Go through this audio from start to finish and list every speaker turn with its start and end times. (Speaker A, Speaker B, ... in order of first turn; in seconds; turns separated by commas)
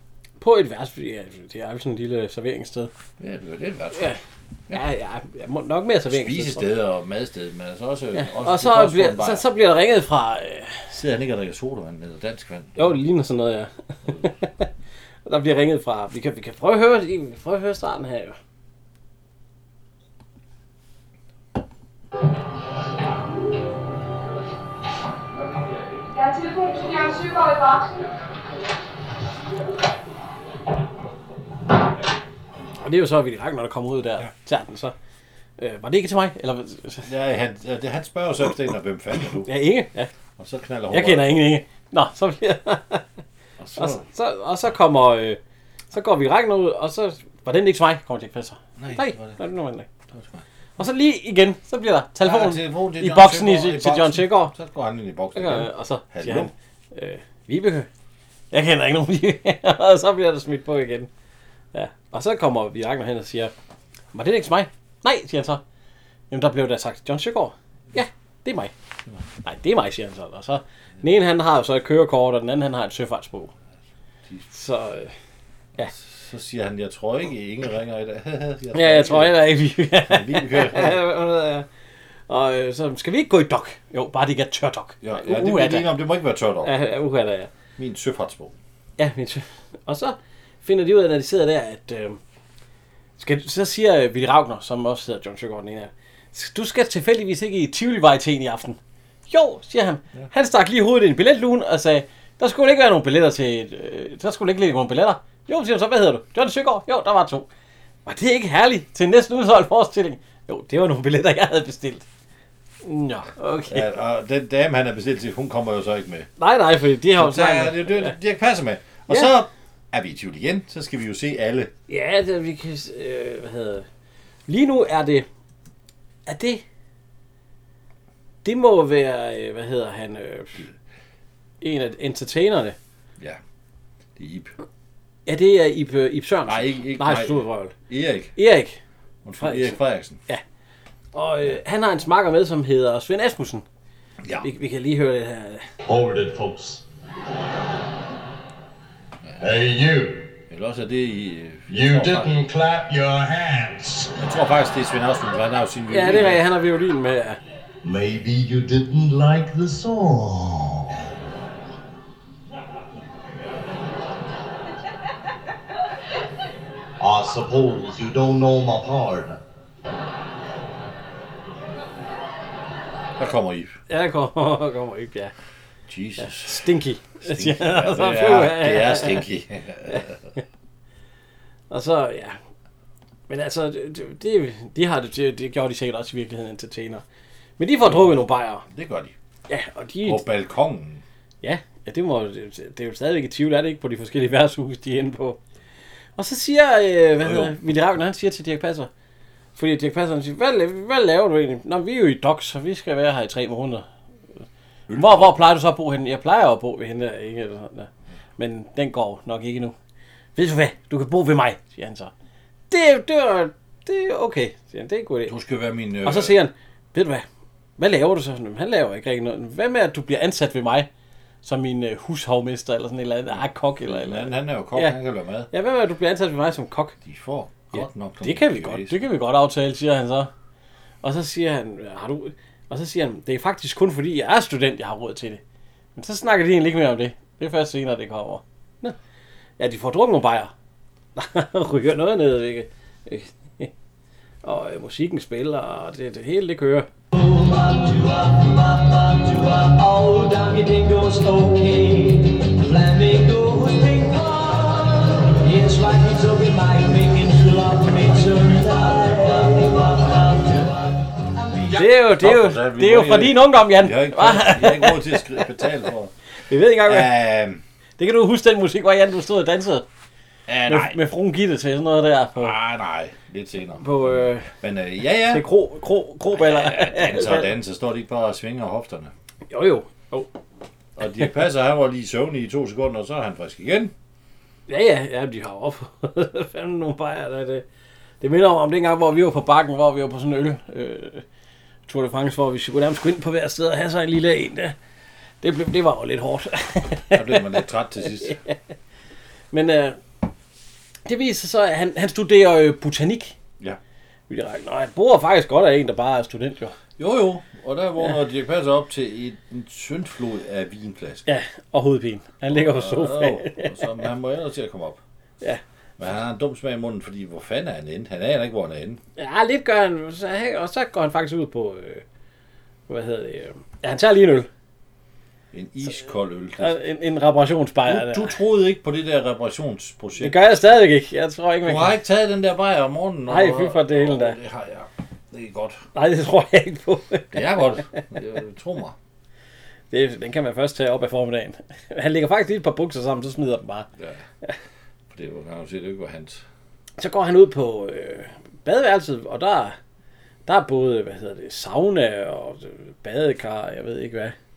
Speaker A: 0.4-2.9, Speaker B: 3.2-4.1, Speaker A: 3.9-4.2, Speaker A: 4.7-6.6, Speaker B: 6.1-9.4, Speaker A: 8.1-10.8, Speaker B: 10.9-13.0, Speaker A: 12.8-14.7, Speaker A: 15.2-18.4, Speaker C: 26.1-28.1, Speaker A: 32.8-34.9, Speaker A: 35.6-37.1, Speaker B: 37.0-39.5, Speaker A: 39.5-40.1, Speaker B: 40.4-41.3, Speaker A: 40.9-43.0, Speaker B: 43.6-44.0, Speaker A: 43.8-45.4, Speaker A: 45.9-49.9, Speaker B: 48.8-49.4, Speaker B: 50.1-50.4, Speaker A: 50.8-54.5, Speaker B: 52.2-56.5, Speaker A: 55.3-57.9, Speaker A: 58.5-61.1, Speaker A: 61.7-63.5, Speaker A: 64.1-65.6, Speaker A: 66.3-68.7, Speaker A: 69.4-73.5, Speaker A: 74.5-75.1, Speaker B: 75.9-79.4, Speaker A: 78.7-81.7, Speaker B: 80.0-81.0, Speaker A: 82.3-85.9, Speaker B: 85.0-86.7, Speaker A: 86.6-87.5, Speaker B: 87.8-88.5, Speaker A: 89.0-92.2, Speaker A: 93.2-107.5, Speaker A: 108.0-112.0, Speaker A: 112.8-113.8, Speaker B: 113.7-116.3, Speaker A: 116.4-118.1, Speaker B: 117.2-121.7, Speaker A: 121.9-123.8, Speaker A: 124.5-125.2, Speaker A: 126.2-126.6, Speaker A: 128.4-130.6, Speaker A: 131.6-132.8, Speaker B: 134.2-134.5, Speaker A: 135.2-137.7, Speaker B: 136.5-138.3, Speaker A: 138.3-138.8, Speaker B: 139.2-140.2, Speaker A: 139.4-139.8, Speaker A: 141.1-143.6, Speaker A: 144.4-145.7, Speaker D: 145.8-146.8, Speaker D: 149.4-150.3, Speaker B: 150.5-152.4, Speaker D: 151.7-154.1, Speaker B: 154.2-156.4, Speaker A: 155.9-157.4, Speaker D: 157.8-161.1, Speaker D: 167.0-169.4, Speaker B: 173.2-173.7, Speaker A: 173.9-175.3, Speaker B: 175.9-176.7, Speaker A: 176.2-179.2, Speaker B: 177.2-180.2, Speaker A: 181.7-182.4, Speaker A: 183.3-187.0, Speaker A: 187.6-188.6, Speaker B: 187.8-189.1, Speaker A: 189.5-190.2, Speaker B: 190.0-191.0, Speaker A: 191.4-195.4, Speaker A: 196.2-198.9, Speaker B: 197.2-197.5, Speaker A: 199.6-203.8, Speaker B: 204.9-205.3, Speaker A: 204.9-209.7, Speaker A: 210.3-212.1, Speaker A: 212.7-215.3, Speaker B: 215.3-216.3, Speaker A: 216.0-217.2, Speaker A: 217.8-220.9, Speaker A: 221.4-224.9, Speaker B: 223.4-225.5, Speaker A: 225.5-226.9, Speaker B: 227.0-229.0, Speaker A: 227.7-230.3, Speaker A: 231.0-235.4, Speaker A: 235.9-238.9, Speaker A: 239.6-240.5, Speaker A: 241.2-243.7, Speaker A: 244.4-246.9, Speaker E: 247.2-260.4, Speaker A: 261.7-265.2, Speaker B: 262.1-266.1, Speaker A: 266.5-267.1, Speaker B: 266.8-267.6, Speaker A: 268.0-269.8, Speaker B: 270.5-271.0, Speaker A: 270.7-272.6, Speaker B: 272.4-275.4, Speaker A: 273.8-274.5, Speaker A: 275.3-277.5, Speaker B: 276.3-279.1, Speaker A: 279.5-280.3, Speaker B: 281.0-283.9, Speaker A: 284.7-287.6, Speaker A: 288.2-291.2, Speaker A: 291.9-294.7, Speaker A: 295.4-297.4, Speaker B: 297.1-298.4, Speaker A: 299.5-300.0, Speaker A: 301.1-303.3, Speaker A: 304.3-306.8, Speaker B: 307.0-311.2, Speaker A: 311.3-313.9, Speaker B: 312.5-315.0, Speaker B: 316.0-319.0, Speaker A: 319.2-322.0, Speaker A: 322.9-324.5, Speaker B: 325.5-326.8, Speaker A: 326.6-328.3, Speaker B: 327.9-330.6, Speaker A: 330.2-331.9, Speaker B: 331.6-335.8, Speaker A: 333.3-334.4, Speaker A: 335.9-337.4, Speaker B: 337.3-338.9, Speaker A: 339.9-343.9, Speaker B: 345.1-346.4, Speaker A: 347.0-349.8, Speaker A: 350.4-354.3